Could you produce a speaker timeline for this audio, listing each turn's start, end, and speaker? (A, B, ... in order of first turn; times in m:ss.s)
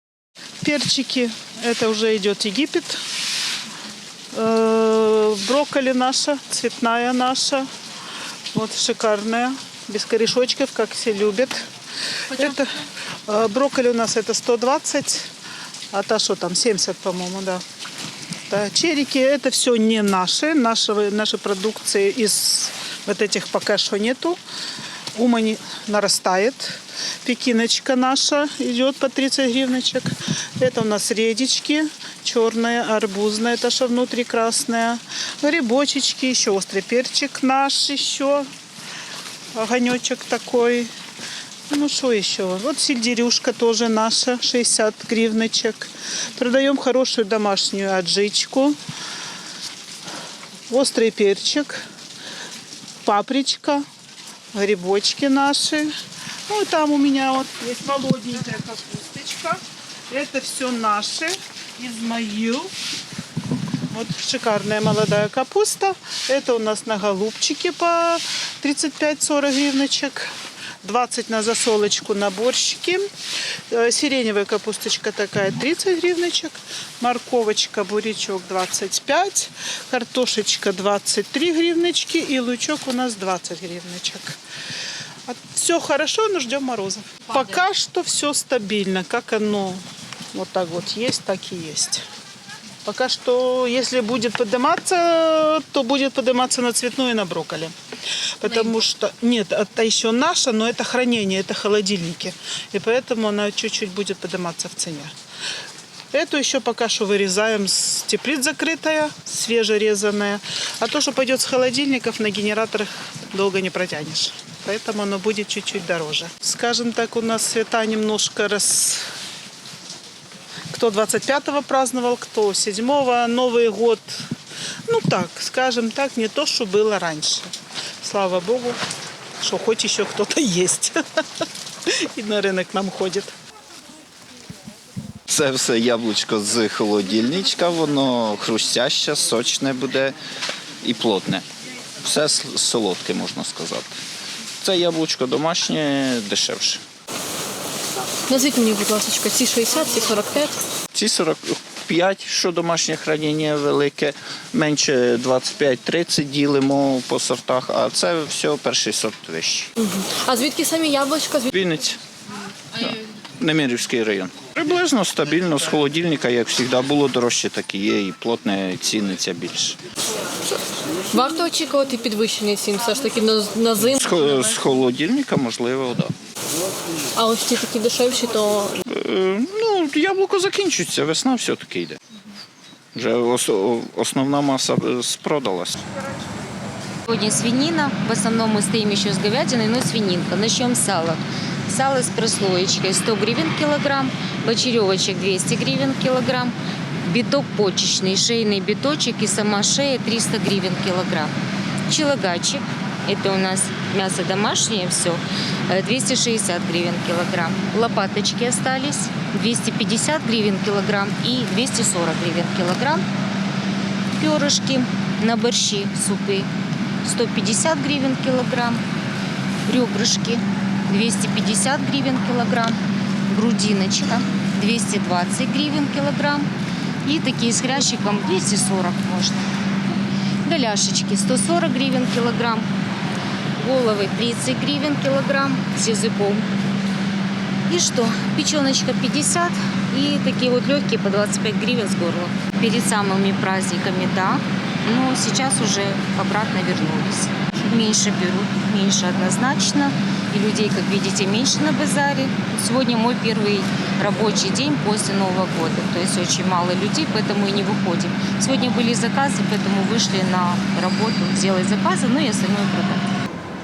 0:00.6-0:03.0 A
0:04.3-0:07.7 A
0:08.5-0:11.6 A
0:12.3-0:12.7 A
0:13.3-0:15.3 A
0:15.9-0:17.6 A
0:18.5-0:24.4 A
0:25.1-0:38.4 A
0:39.6-0:40.9 A
0:41.7-0:48.8 A
0:50.7-0:51.8 A
0:53.0-0:53.8 A
0:54.5-0:55.9 A
0:56.5-1:02.7 A
1:03.9-1:10.3 A
1:10.8-1:13.0 A
1:13.7-1:24.4 A
1:25.3-1:29.8 A
1:30.3-1:32.0 A
1:32.8-1:37.7 A
1:38.4-1:45.1 A
1:46.1-1:59.0 A
2:00.7-2:04.2 A
2:04.9-2:07.5 A
2:08.0-2:08.8 A
2:09.4-2:13.3 A
2:15.3-2:20.2 B
2:20.8-2:21.4 B
2:22.0-2:23.9 B
2:24.6-2:26.8 B
2:28.3-2:30.6 C
2:30.9-2:39.7 B
2:39.8-2:41.5 C
2:41.5-2:42.0 B
2:42.8-2:49.8 B
2:51.1-2:54.6 C
2:54.0-2:56.1 B
2:57.1-2:58.8 C
2:58.8-3:02.0 B
3:02.9-3:05.8 B
3:07.1-3:21.3 D
3:21.9-3:33.0 D
3:34.1-3:36.5 D
3:37.0-3:38.8 D
3:39.7-3:42.8 D
3:43.3-3:46.5 D
3:47.0-3:49.5 D
3:50.4-3:52.7 D
3:53.6-3:56.5 D
3:57.7-4:23.1 D